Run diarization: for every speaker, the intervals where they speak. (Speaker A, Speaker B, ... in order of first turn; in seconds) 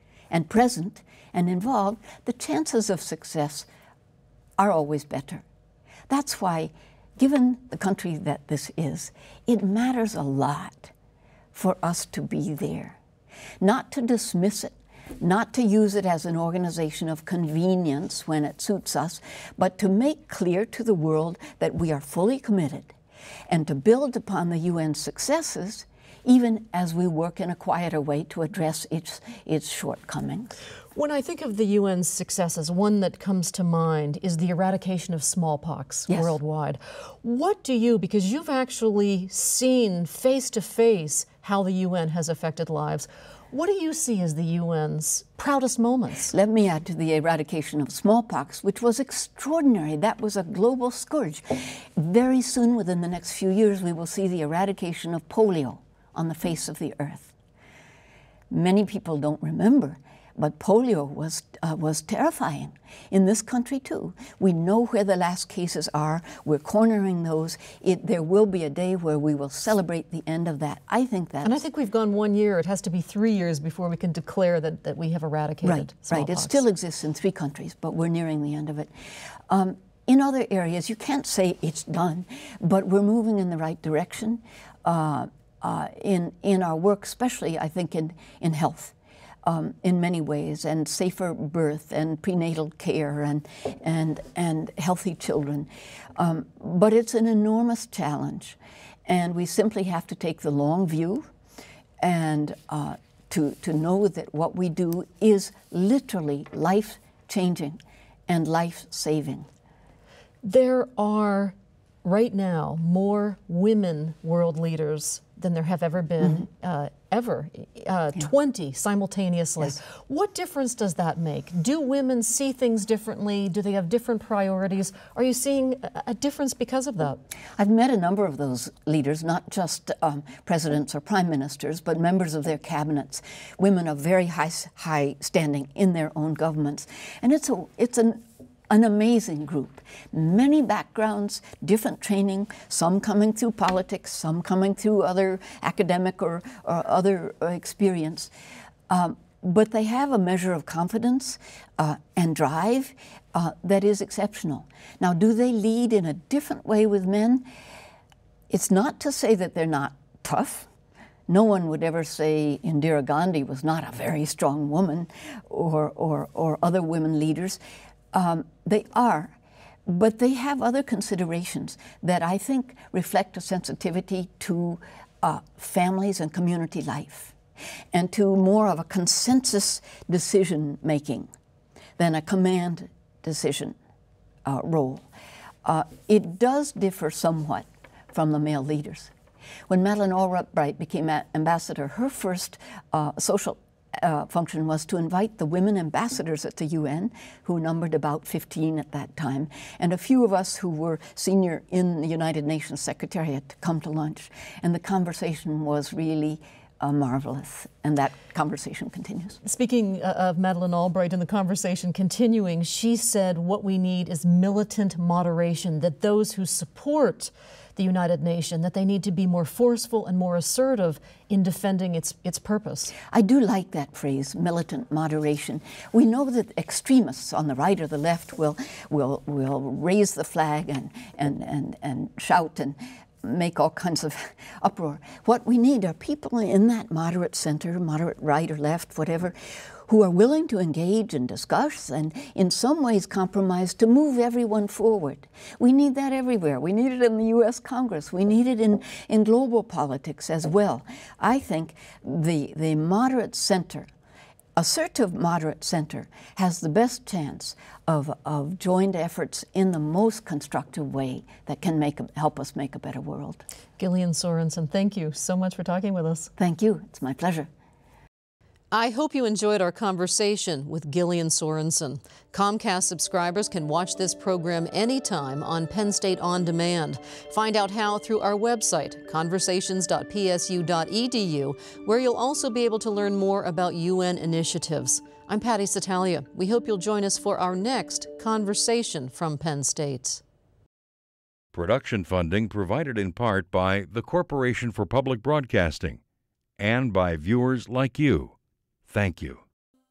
Speaker A: 0.3-3.7, 4.6-5.4, 6.1-10.9, 11.5-13.0, 13.6-22.9, 23.5-30.5, 46.3-57.3, 58.5-71.6, 75.6-78.9, 79.5-101.3, 102.0-109.5, 127.6-148.3, 148.9-157.4, 158.5-160.7, 161.3-167.6, 168.1-169.3, 169.8-177.3, 177.9-181.3, 182.0-183.8, 184.4-185.1, 185.6-189.1, 189.7-209.4, 223.1-239.3, 239.8-253.9, 254.6-263.4, 266.4-267.5
Speaker B: 30.9-46.3, 71.4-76.6, 110.4-127.2, 209.4-222.9, 263.8-266.3, 268.7-290.2
Speaker C: 291.5-296.0, 296.6-298.3, 298.9-299.4